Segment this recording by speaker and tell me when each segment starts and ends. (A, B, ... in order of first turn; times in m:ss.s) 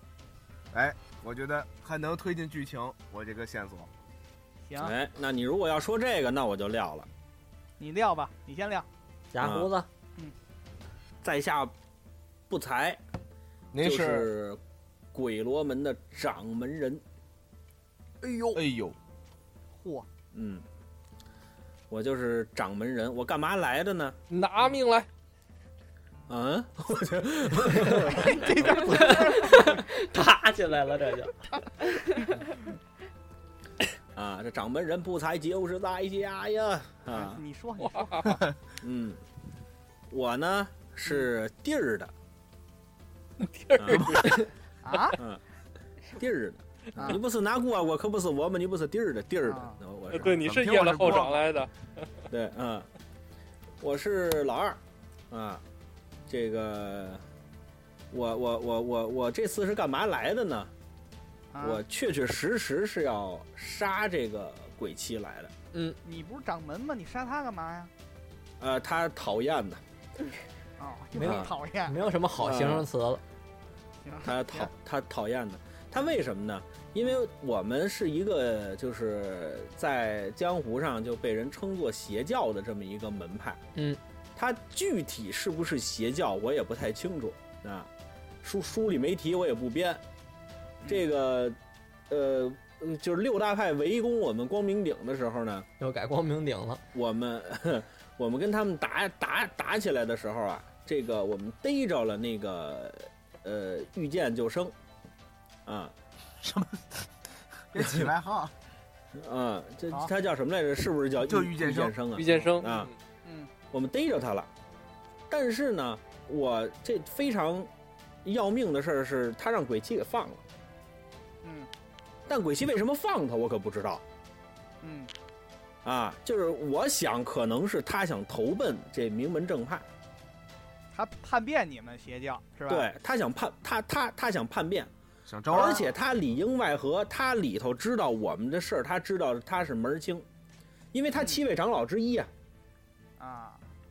0:00.7-0:03.9 A
0:04.6-0:04.9 B
0:04.8-0:07.1 C
0:07.8-0:08.9 B
0:09.3-0:09.9 D
0:09.4-0:09.7 C
0:11.2-0:11.7 C
0:12.5-0:13.0 C
0:13.7-0:14.3 A
0:13.8-0:14.6 C
0:15.1-0:17.0 C
0:18.2-0:18.6 B
0:18.5-0:19.0 A
0:19.7-0:20.1 B
0:20.3-0:20.6 C
0:21.9-0:24.2 C
0:24.3-0:25.1 E
0:26.3-0:28.5 C
0:27.9-0:29.9 B
0:28.8-0:31.3 D
0:34.1-0:37.4 C
0:37.1-0:38.4 B
0:37.8-0:38.3 E
0:38.8-0:39.2 C
0:40.1-0:42.1 C
0:43.4-0:45.0 E
0:43.8-0:44.4 C
0:44.8-0:45.2 B
0:46.1-0:50.5 C
0:47.0-0:47.2 B
0:49.4-0:49.8 B
0:50.1-0:51.7 E
0:50.3-0:51.5 A
0:52.3-0:52.9 C
0:53.8-0:54.8 C
0:55.3-0:55.6 C
0:56.3-0:57.2 C
0:58.1-1:00.7 C
1:01.5-1:01.8 B
1:01.6-1:05.5 C
1:05.7-1:06.0 D
1:06.0-1:07.9 B
1:08.6-1:09.8 C
1:10.8-1:12.1 B
1:11.1-1:13.2 D
1:11.2-1:11.5 C
1:12.4-1:12.9 C
1:14.0-1:14.7 B
1:14.2-1:23.6 C
1:23.7-1:24.0 D
1:24.4-1:27.9 C
1:28.4-1:30.0 C
1:30.8-1:31.6 C
1:32.1-1:35.7 C
1:35.8-1:36.8 D
1:36.9-1:44.7 C
1:45.6-1:45.9 C
1:46.4-1:47.0 A
1:47.7-1:48.5 A
1:49.1-1:52.9 C
1:51.2-1:51.9 A
1:52.1-1:52.9 E
1:53.2-1:53.5 B
1:53.7-1:54.5 C
1:55.3-1:57.7 C
1:58.2-2:00.4 C
2:01.4-2:01.7 B
2:02.3-2:04.0 C
2:04.8-2:05.1 B
2:05.8-2:09.8 C
2:10.9-2:12.8 B
2:12.7-2:14.9 C
2:15.2-2:15.9 A
2:15.5-2:20.2 C
2:20.9-2:22.3 C
2:21.2-2:21.4 B
2:23.2-2:23.6 B